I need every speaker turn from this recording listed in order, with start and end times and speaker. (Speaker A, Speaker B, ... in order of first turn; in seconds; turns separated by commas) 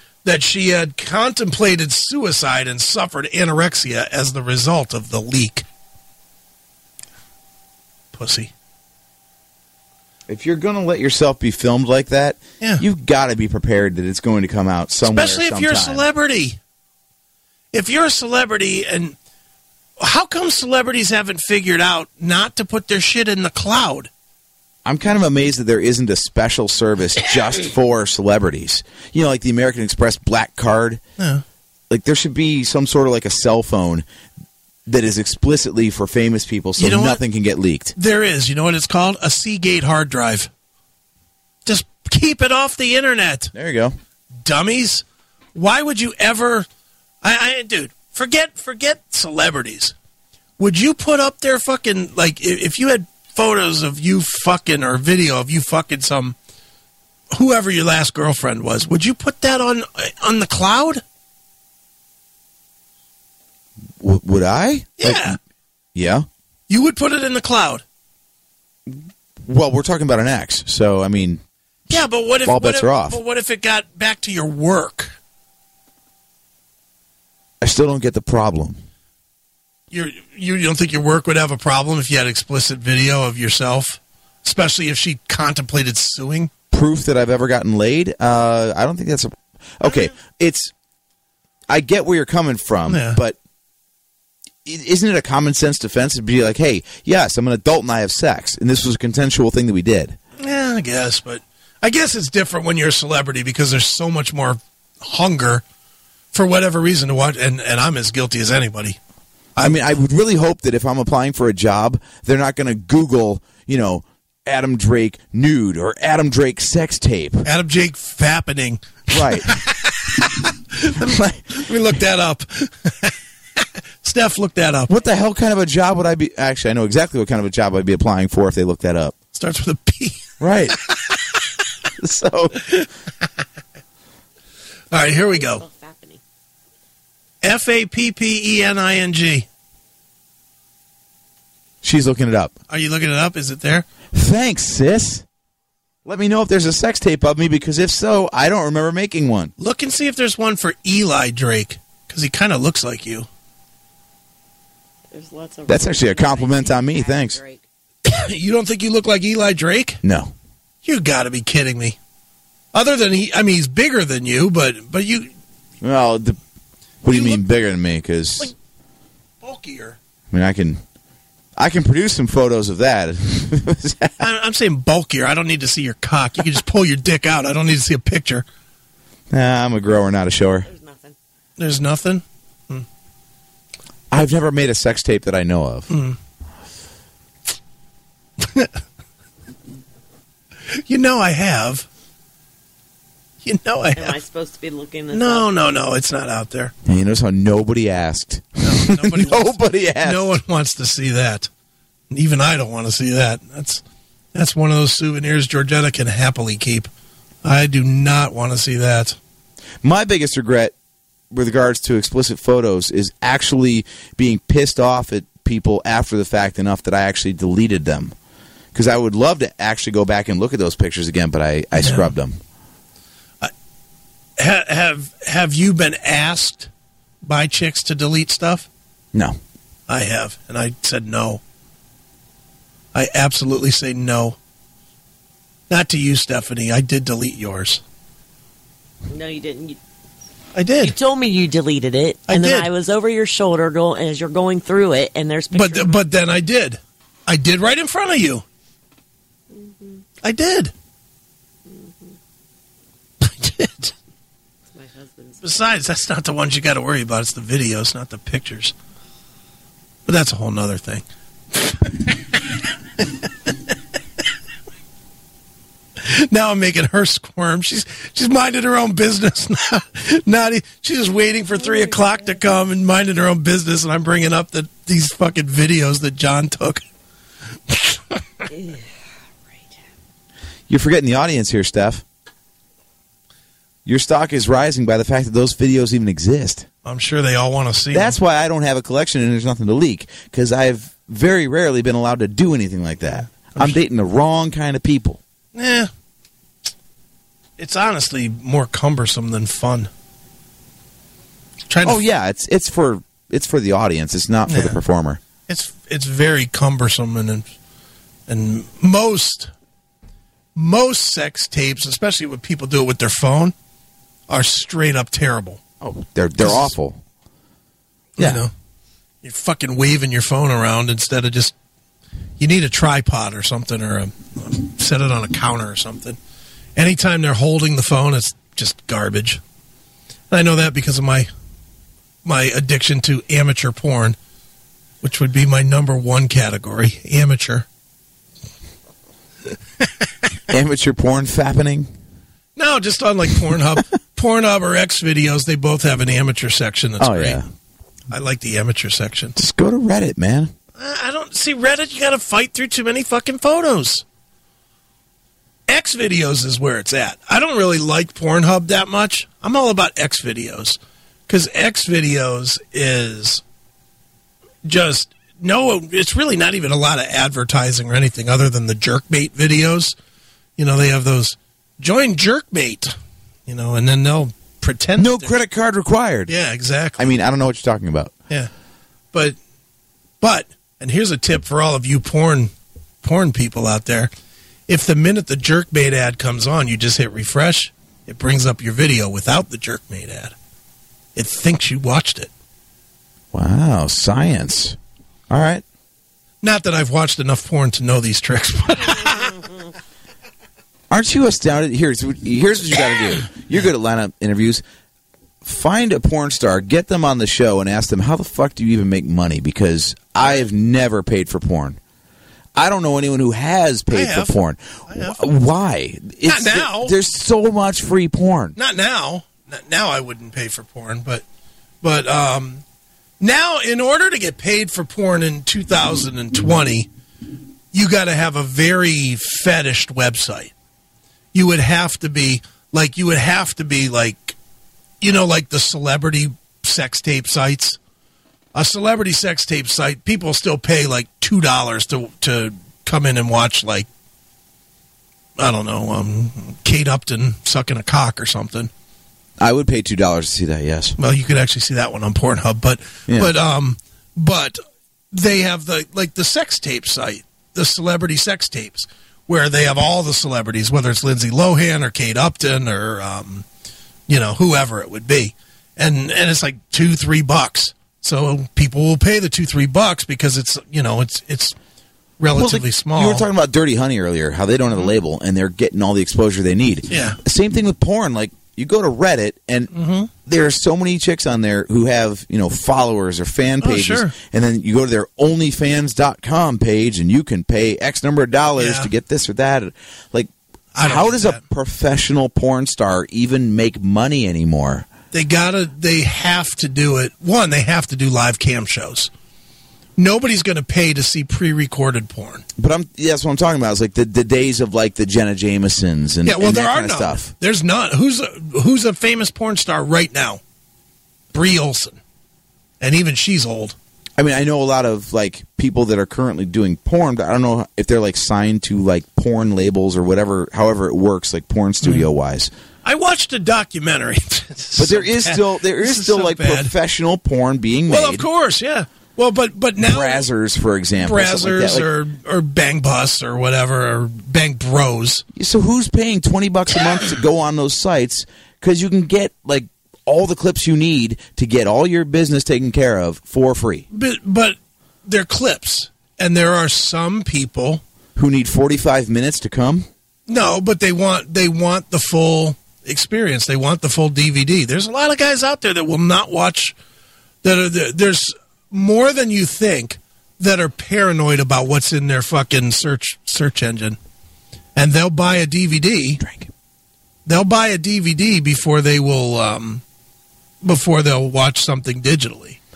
Speaker A: 0.2-5.7, Speaker A: 8.1-8.5, Speaker B: 10.3-16.0, Speaker A: 15.0-16.6, Speaker A: 17.7-19.2, Speaker A: 20.0-24.1, Speaker B: 24.9-31.0, Speaker A: 31.2-31.4, Speaker B: 31.9-34.0, Speaker B: 34.9-37.9, Speaker A: 36.8-37.2, Speaker A: 37.9-40.5, Speaker A: 41.6-43.5, Speaker B: 43.5-43.9, Speaker A: 44.3-46.7, Speaker A: 47.2-50.0, Speaker A: 50.6-56.4, Speaker A: 57.3-61.0, Speaker B: 64.0-65.4, Speaker A: 65.0-65.4, Speaker B: 66.0-66.3, Speaker A: 66.7-67.8, Speaker B: 68.9-71.4, Speaker A: 71.9-75.2, Speaker B: 72.5-73.2, Speaker B: 77.6-78.8, Speaker A: 79.9-86.5, Speaker B: 86.7-90.7, Speaker A: 89.8-90.1, Speaker B: 91.7-93.4, Speaker A: 92.9-93.2, Speaker B: 94.7-100.2, Speaker A: 100.4-105.6, Speaker A: 106.3-109.0, Speaker A: 109.6-109.9, Speaker B: 109.6-117.5, Speaker A: 117.5-124.9, Speaker B: 119.1-119.6, Speaker B: 120.9-121.7, Speaker B: 124.9-129.2, Speaker A: 129.3-131.5, Speaker B: 130.4-130.8, Speaker B: 132.0-132.7, Speaker A: 132.6-132.9, Speaker A: 134.9-135.6, Speaker C: 135.0-136.2, Speaker A: 137.4-139.5, Speaker B: 141.8-142.5, Speaker A: 142.7-143.9, Speaker B: 144.1-145.2, Speaker B: 146.1-149.5, Speaker A: 149.6-153.3, Speaker C: 155.1-157.6, Speaker B: 155.7-157.4, Speaker A: 158.0-160.0, Speaker B: 160.0-160.3, Speaker A: 160.8-162.0, Speaker A: 162.7-165.3, Speaker B: 165.8-166.4, Speaker B: 167.0-168.5, Speaker A: 167.1-167.4, Speaker A: 169.4-170.0, Speaker B: 170.3-170.8, Speaker B: 171.6-174.3, Speaker A: 174.2-178.4, Speaker B: 179.3-180.7, Speaker C: 180.7-181.2, Speaker A: 181.6-182.9, Speaker B: 184.1-185.9, Speaker A: 185.9-186.2, Speaker A: 188.4-188.7, Speaker A: 190.7-191.9, Speaker A: 193.4-194.2, Speaker C: 194.0-195.5, Speaker A: 195.1-196.7, Speaker B: 196.9-200.3, Speaker A: 198.6-201.5, Speaker A: 202.1-203.8, Speaker A: 204.3-206.9, Speaker A: 207.4-209.2, Speaker B: 209.8-210.7, Speaker B: 211.3-218.2, Speaker B: 218.7-222.4, Speaker A: 221.8-222.1, Speaker A: 224.4-226.7, Speaker A: 227.2-228.7, Speaker A: 229.9-231.4, Speaker A: 232.9-234.4, Speaker A: 235.7-237.8, Speaker C: 239.1-239.8, Speaker A: 240.6-241.0, Speaker C: 240.8-246.0, Speaker A: 242.3-242.7, Speaker A: 245.5-248.4, Speaker C: 249.5-250.0, Speaker A: 250.2-250.7, Speaker C: 251.7-252.2, Speaker A: 253.2-253.9, Speaker C: 254.7-255.4, Speaker A: 255.4-258.8, Speaker A: 260.1-263.7, Speaker A: 266.0-276.8, Speaker C: 271.6-272.4, Speaker A: 277.7-278.5, Speaker C: 278.5-278.9, Speaker B: 280.7-282.0, Speaker B: 283.9-286.7, Speaker A: 286.8-288.1, Speaker B: 287.9-295.2, Speaker A: 293.5-293.8, Speaker A: 295.6-295.9, Speaker A: 297.6-299.9, Speaker A: 301.7-302.0, Speaker B: 301.8-305.2, Speaker A: 304.5-304.8, Speaker A: 305.5-307.5, Speaker A: 308.3-309.5, Speaker A: 310.6-313.6, Speaker A: 314.3-315.6, Speaker B: 315.8-317.0, Speaker A: 316.4-316.7, Speaker A: 318.2-318.5, Speaker B: 318.2-318.4, Speaker A: 319.2-321.6, Speaker A: 322.4-326.2, Speaker A: 326.8-329.4, Speaker A: 330.3-331.3, Speaker A: 332.2-334.2, Speaker A: 335.0-337.7, Speaker A: 339.8-340.1, Speaker B: 340.5-341.9, Speaker A: 342.6-347.4, Speaker B: 347.0-347.4, Speaker A: 348.1-349.4, Speaker B: 349.4-350.5, Speaker A: 350.8-354.1, Speaker A: 355.7-363.4, Speaker A: 364.6-370.0, Speaker A: 370.6-375.3, Speaker B: 375.0-376.3, Speaker A: 376.3-377.1, Speaker B: 377.0-378.1, Speaker A: 379.1-379.4, Speaker A: 380.2-384.1, Speaker A: 384.7-390.4, Speaker A: 391.1-392.3, Speaker B: 393.3-394.8, Speaker B: 395.3-395.6, Speaker A: 396.4-399.5, Speaker B: 400.9-404.6, Speaker B: 405.4-411.8, Speaker B: 412.6-418.6, Speaker A: 413.9-414.3, Speaker A: 414.9-415.2, Speaker A: 416.2-417.0, Speaker A: 418.6-421.2, Speaker A: 421.8-422.6, Speaker A: 423.2-426.9, Speaker A: 427.7-430.5, Speaker A: 431.3-434.4, Speaker A: 435.0-437.8, Speaker A: 438.5-443.9, Speaker A: 445.4-448.7, Speaker B: 449.4-451.0, Speaker A: 451.0-454.6, Speaker A: 455.1-463.5, Speaker A: 464.1-471.6, Speaker A: 472.2-473.3, Speaker B: 472.4-479.7, Speaker A: 476.9-477.2, Speaker A: 479.7-480.1, Speaker B: 480.3-490.3, Speaker A: 483.6-484.1, Speaker A: 488.6-488.9, Speaker A: 490.7-491.4, Speaker B: 490.8-494.9, Speaker A: 495.1-499.1, Speaker A: 500.0-502.4, Speaker B: 502.6-507.3, Speaker A: 506.2-510.4, Speaker A: 511.3-512.0, Speaker A: 512.8-513.8, Speaker B: 514.2-522.5, Speaker A: 522.8-526.7, Speaker B: 524.8-528.3, Speaker A: 527.9-530.2, Speaker B: 529.8-531.9, Speaker A: 531.0-535.2, Speaker B: 535.4-543.9, Speaker A: 543.9-547.8, Speaker B: 548.2-549.9, Speaker A: 550.3-556.8, Speaker A: 557.4-564.0, Speaker A: 564.8-566.2, Speaker B: 566.2-566.5, Speaker A: 567.3-569.8, Speaker A: 570.6-572.6